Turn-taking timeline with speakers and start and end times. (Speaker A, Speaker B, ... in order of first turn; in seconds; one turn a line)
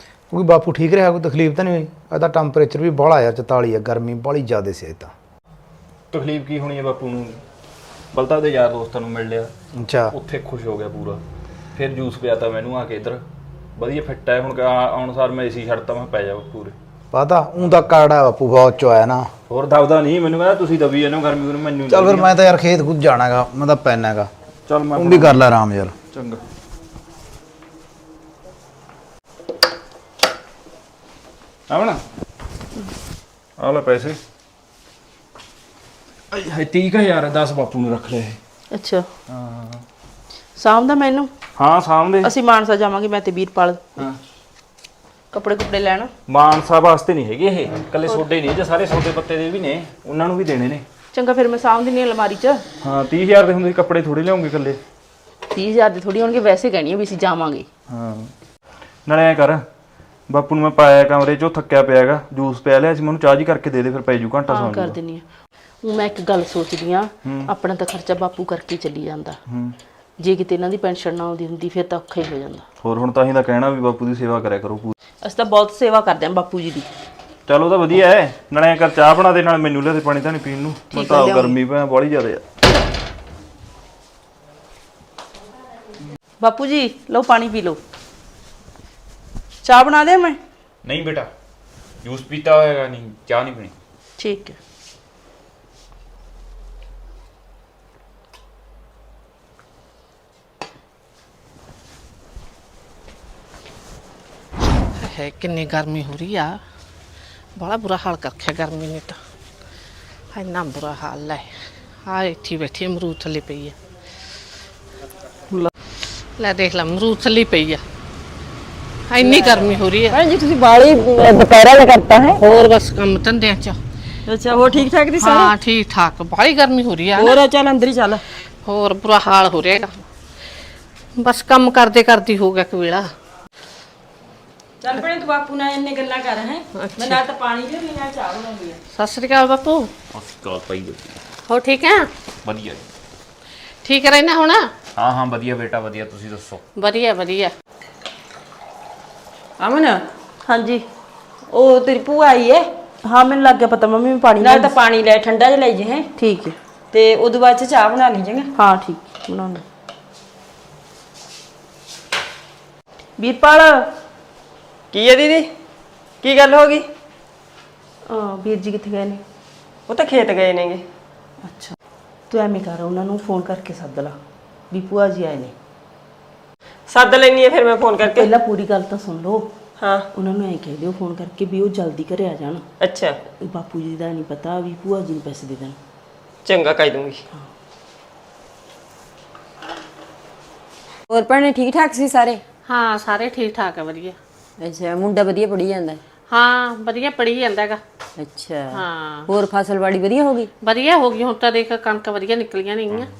Speaker A: 0.3-5.1
Speaker B: 6.1-7.4
Speaker B: 8.1-9.5
Speaker A: 9.8-10.1
Speaker B: 10.1-11.2
Speaker B: 11.8-13.2
Speaker B: 13.8-16.8
Speaker A: 17.1-19.3
Speaker B: 19.5-22.3
Speaker A: 21.9-24.3
Speaker B: 24.7-25.4
Speaker A: 24.9-25.9
Speaker B: 26.1-26.4
Speaker B: 31.7-32.0
Speaker B: 33.6-34.2
Speaker B: 36.3-38.4
Speaker C: 38.7-39.1
Speaker B: 39.3-39.8
Speaker C: 40.6-41.3
Speaker B: 41.6-42.3
Speaker C: 42.2-44.0
Speaker C: 45.3-46.1
Speaker B: 46.3-50.8
Speaker C: 51.1-52.6
Speaker B: 52.8-54.8
Speaker C: 55.5-57.7
Speaker B: 57.9-58.3
Speaker B: 59.1-59.6
Speaker B: 60.3-65.0
Speaker C: 64.5-65.2
Speaker C: 65.8-69.4
Speaker B: 67.2-67.5
Speaker B: 69.5-69.8
Speaker C: 70.2-72.7
Speaker B: 72.8-74.9
Speaker C: 75.2-76.9
Speaker B: 77.5-82.4
Speaker C: 80.9-81.6
Speaker C: 86.4-87.8
Speaker C: 89.6-90.4
Speaker D: 90.8-91.3
Speaker D: 92.0-93.7
Speaker C: 94.2-94.6
Speaker E: 105.0-106.6
Speaker E: 107.6-109.2
Speaker E: 110.3-111.5
Speaker E: 112.1-113.8
Speaker E: 116.4-117.8
Speaker E: 119.1-120.2
Speaker F: 119.2-122.4
Speaker E: 122.4-123.8
Speaker F: 124.2-125.5
Speaker E: 125.2-127.4
Speaker F: 127.2-128.2
Speaker E: 128.7-129.9
Speaker E: 131.2-133.1
Speaker F: 134.8-138.8
Speaker E: 136.8-137.2
Speaker E: 138.9-139.9
Speaker D: 140.1-141.1
Speaker E: 141.5-142.1
Speaker D: 142.4-142.8
Speaker E: 143.8-144.7
Speaker D: 145.0-146.6
Speaker E: 146.8-147.5
Speaker F: 149.6-150.0
Speaker C: 150.5-150.8
Speaker F: 151.5-152.7
Speaker C: 153.1-154.7
Speaker F: 154.4-156.1
Speaker C: 156.2-156.6
Speaker F: 156.9-158.5
Speaker C: 158.6-159.6
Speaker C: 163.2-163.9
Speaker G: 164.9-165.5
Speaker G: 166.2-166.9
Speaker C: 168.1-169.2
Speaker G: 169.9-170.8
Speaker C: 171.4-171.8
Speaker C: 172.3-174.2
Speaker C: 174.7-175.6
Speaker G: 176.9-178.3
Speaker C: 178.1-179.5
Speaker G: 179.8-180.1
Speaker C: 180.1-182.6
Speaker G: 182.8-183.2
Speaker C: 183.4-185.8
Speaker G: 186.4-187.2
Speaker F: 191.1-192.4
Speaker E: 192.7-194.2
Speaker F: 194.6-196.0
Speaker E: 196.3-197.8
Speaker F: 198.2-200.5
Speaker E: 198.7-199.3
Speaker E: 200.6-203.1